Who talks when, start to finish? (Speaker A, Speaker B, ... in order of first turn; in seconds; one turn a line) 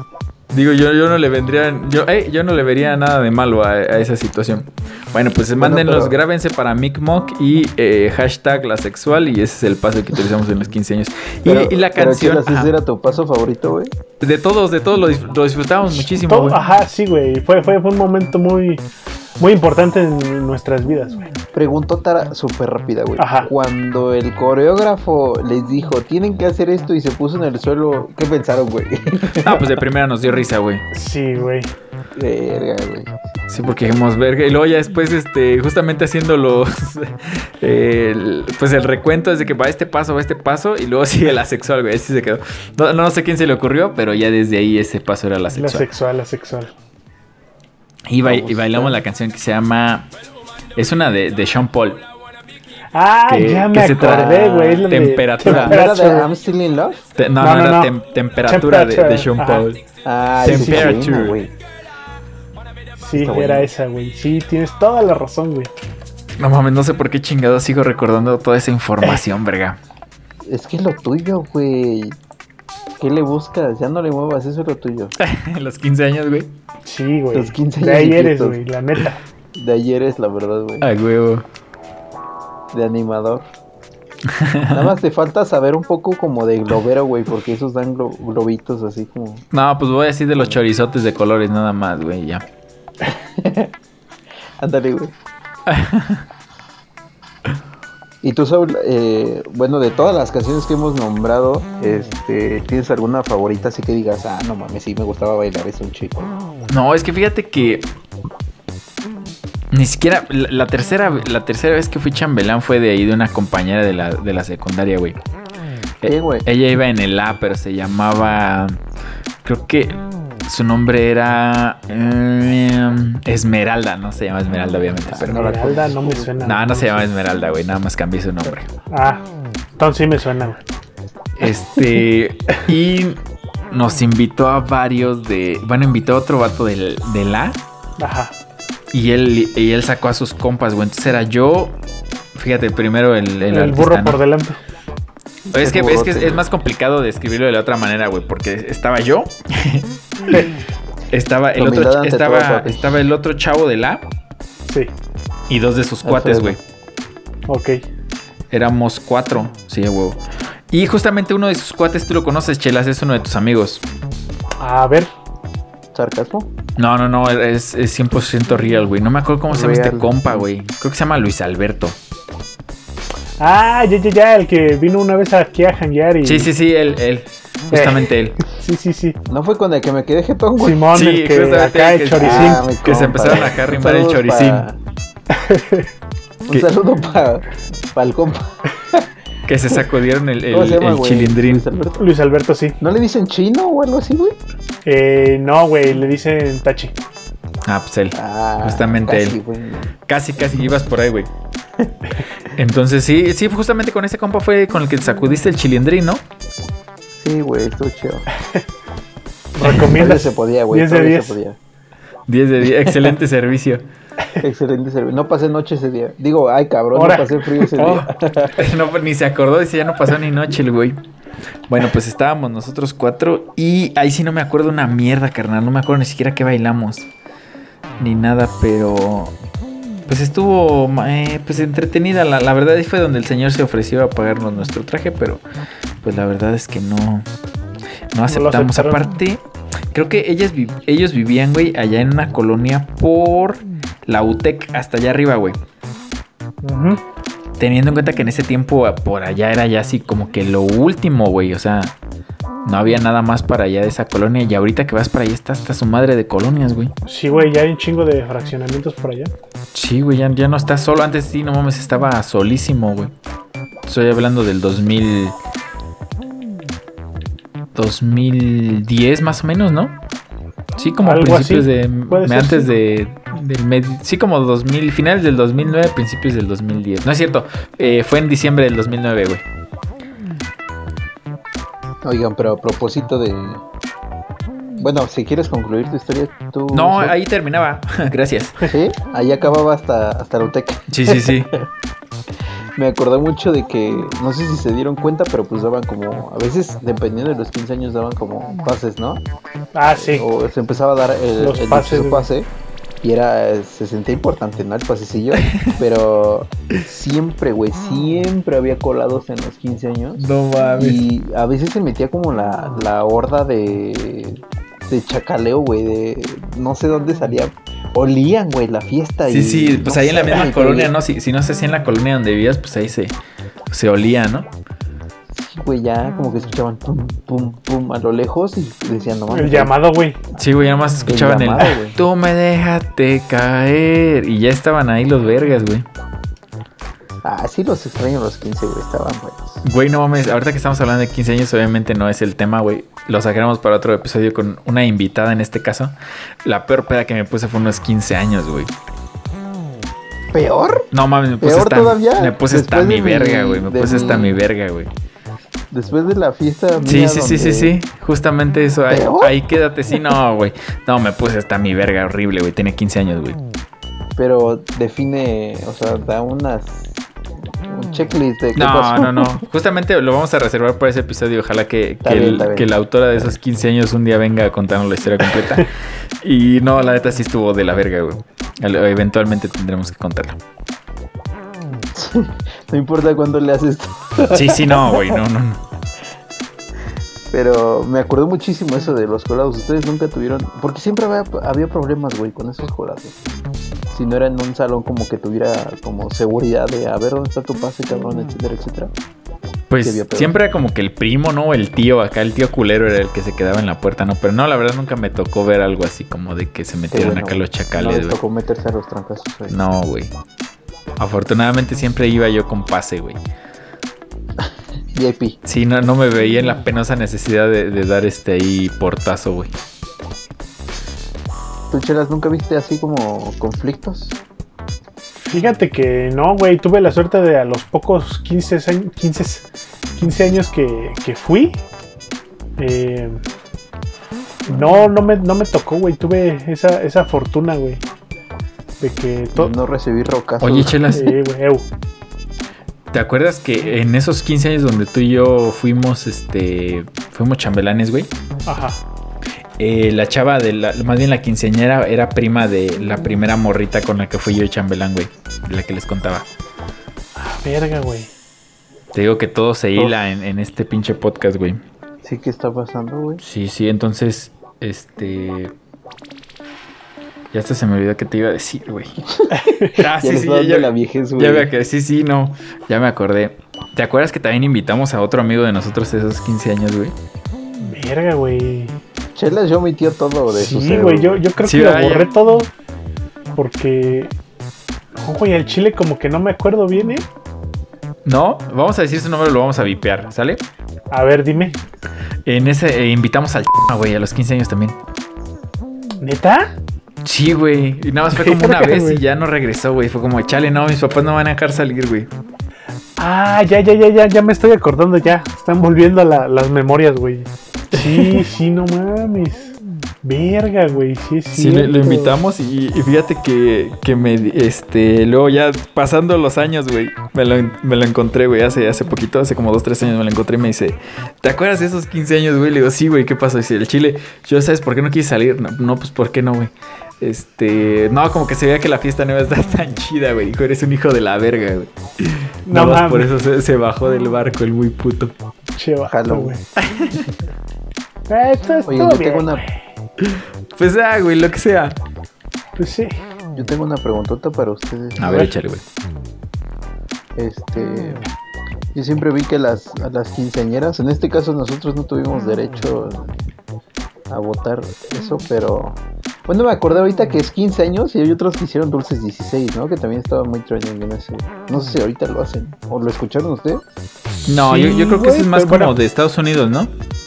Speaker A: 0.5-12.7
Speaker B: 5.5-6.2
Speaker B: 11.4-13.9
Speaker A: 14.2-16.6
Speaker C: 15.9-18.8
Speaker C: 19.4-21.3
Speaker B: 21.5-29.7
Speaker C: 23.2-23.5
Speaker A: 29.3-30.8
Speaker C: 30.9-31.7
Speaker B: 32.1-33.2
Speaker A: 33.5-45.9
Speaker C: 45.5-46.7
Speaker A: 48.1-50.1
Speaker B: 48.2-49.0
Speaker A: 50.8-52.1
Speaker C: 52.9-56.3
Speaker A: 53.3-55.8
Speaker B: 54.2-54.8
Speaker B: 55.4-57.0
Speaker A: 57.2-59.8
Speaker C: 57.4-59.6
Speaker B: 60.0-61.5
Speaker A: 60.4-61.4
Speaker C: 60.4-61.0
Speaker C: 63.0-65.7
Speaker B: 63.1-63.7
Speaker A: 66.4-69.8
Speaker B: 70.4-72.2
Speaker B: 73.0-75.2
Speaker A: 75.2-76.5
Speaker C: 76.8-79.2
Speaker B: 77.3-78.6
Speaker B: 79.5-80.9
Speaker A: 80.8-81.4
Speaker B: 82.7-83.4
Speaker A: 84.2-84.9
Speaker B: 84.7-89.4
Speaker A: 89.5-92.4
Speaker B: 93.0-93.7
Speaker B: 94.6-95.1
Speaker A: 95.7-96.2
Speaker B: 98.2-106.3
Speaker A: 106.7-107.9
Speaker A: 109.7-115.2
Speaker A: 116.0-118.8
Speaker B: 116.0-116.5
Speaker A: 119.4-125.6
Speaker B: 125.1-126.4
Speaker C: 125.2-127.0
Speaker A: 126.4-128.7
Speaker C: 128.9-129.2
Speaker C: 129.8-130.6
Speaker A: 131.3-133.2
Speaker A: 133.7-137.6
Speaker C: 138.0-138.3
Speaker A: 138.9-141.8
Speaker A: 142.3-144.2
Speaker C: 143.5-144.6
Speaker B: 145.5-146.4
Speaker A: 145.5-150.4
Speaker A: 151.1-154.0
Speaker B: 151.6-153.0
Speaker A: 155.5-156.6
Speaker B: 156.0-156.6
Speaker C: 157.5-157.8
Speaker A: 158.5-163.8
Speaker C: 164.6-165.1
Speaker B: 165.9-166.5
Speaker A: 166.8-172.0
Speaker B: 169.5-170.4
Speaker C: 173.4-176.5
Speaker A: 176.2-178.4
Speaker C: 177.7-179.2
Speaker B: 179.3-180.9
Speaker C: 180.6-182.6
Speaker A: 180.9-184.7
Speaker B: 182.2-184.8
Speaker C: 185.3-185.9
Speaker B: 186.5-189.1
Speaker A: 189.5-191.6
Speaker B: 190.5-192.0
Speaker C: 192.0-192.8
Speaker B: 192.8-194.3
Speaker C: 194.8-196.9
Speaker A: 197.7-199.4
Speaker B: 198.1-199.9
Speaker A: 200.1-201.3
Speaker A: 202.5-206.2
Speaker B: 207.2-208.3
Speaker C: 209.5-211.4
Speaker B: 209.9-211.6
Speaker A: 212.3-213.8
Speaker B: 214.4-218.6
Speaker C: 216.9-217.7
Speaker A: 217.8-221.0
Speaker A: 221.7-227.1
Speaker A: 228.0-229.3
Speaker A: 230.1-235.4
Speaker A: 236.0-237.2
Speaker A: 238.1-245.6
Speaker C: 238.3-239.1
Speaker C: 246.6-247.0
Speaker A: 247.6-251.9
Speaker A: 252.6-256.9
Speaker C: 257.1-259.3
Speaker A: 259.7-263.1
Speaker A: 263.9-265.4
Speaker A: 267.7-270.0
Speaker A: 270.8-279.4
Speaker C: 271.0-272.7
Speaker B: 282.0-283.6
Speaker B: 284.8-287.1
Speaker A: 286.7-288.7
Speaker B: 288.6-291.6
Speaker A: 290.9-291.6
Speaker B: 292.8-299.2
Speaker C: 299.7-300.2
Speaker B: 299.9-302.5
Speaker C: 301.4-302.3
Speaker B: 303.0-320.9
Speaker A: 310.2-311.0
Speaker A: 319.2-323.2
Speaker A: 323.7-324.5
Speaker B: 325.3-329.7
Speaker C: 329.3-330.2
Speaker A: 330.4-335.8
Speaker B: 331.1-332.0
Speaker B: 337.2-339.6
Speaker A: 339.6-348.7
Speaker B: 350.3-350.9
Speaker A: 350.9-354.9
Speaker B: 351.4-354.4
Speaker B: 355.7-357.7
Speaker A: 356.8-363.4
Speaker B: 358.9-359.4
Speaker B: 364.2-367.0
Speaker B: 367.6-369.4
Speaker A: 368.6-380.4
Speaker B: 372.0-372.7
Speaker B: 381.9-385.2
Speaker A: 384.3-385.6
Speaker B: 387.3-393.1
Speaker B: 393.9-398.9
Speaker A: 399.7-408.2
Speaker B: 399.8-400.4
Speaker B: 406.9-409.6
Speaker A: 409.5-410.1
Speaker A: 411.0-413.2
Speaker B: 414.4-415.4
Speaker A: 415.4-419.5
Speaker B: 421.7-424.2
Speaker C: 425.3-431.6
Speaker C: 432.6-433.2
Speaker C: 434.5-437.8
Speaker C: 438.8-439.5
Speaker B: 439.4-440.8
Speaker A: 440.4-441.2
Speaker C: 440.9-441.6
Speaker A: 442.9-448.1
Speaker C: 448.4-448.8
Speaker A: 449.6-456.3
Speaker C: 457.2-458.1
Speaker A: 458.9-461.6
Speaker B: 462.0-463.2
Speaker A: 463.2-465.5
Speaker A: 467.3-468.9
Speaker B: 469.2-471.5
Speaker C: 469.3-469.7
Speaker A: 469.7-476.9
Speaker C: 477.6-478.8
Speaker B: 479.1-481.2
Speaker C: 480.3-482.5
Speaker A: 481.4-482.1
Speaker C: 483.3-484.1
Speaker C: 485.0-487.1
Speaker A: 488.0-490.4
Speaker C: 490.9-491.6
Speaker A: 492.2-494.8
Speaker C: 496.0-496.5
Speaker A: 497.0-502.1
Speaker C: 498.1-499.0
Speaker C: 503.0-512.1
Speaker A: 507.7-508.2
Speaker A: 511.3-535.1
Speaker C: 532.5-533.1
Speaker C: 535.6-536.4
Speaker B: 535.9-536.4
Speaker A: 536.6-537.1
Speaker C: 538.1-539.5
Speaker B: 538.7-539.4
Speaker A: 540.0-541.8
Speaker C: 542.6-542.9
Speaker B: 543.4-545.3
Speaker A: 545.0-545.6
Speaker B: 547.1-548.0
Speaker B: 548.7-553.1
Speaker B: 554.1-563.6
Speaker C: 564.2-565.7
Speaker A: 564.2-566.7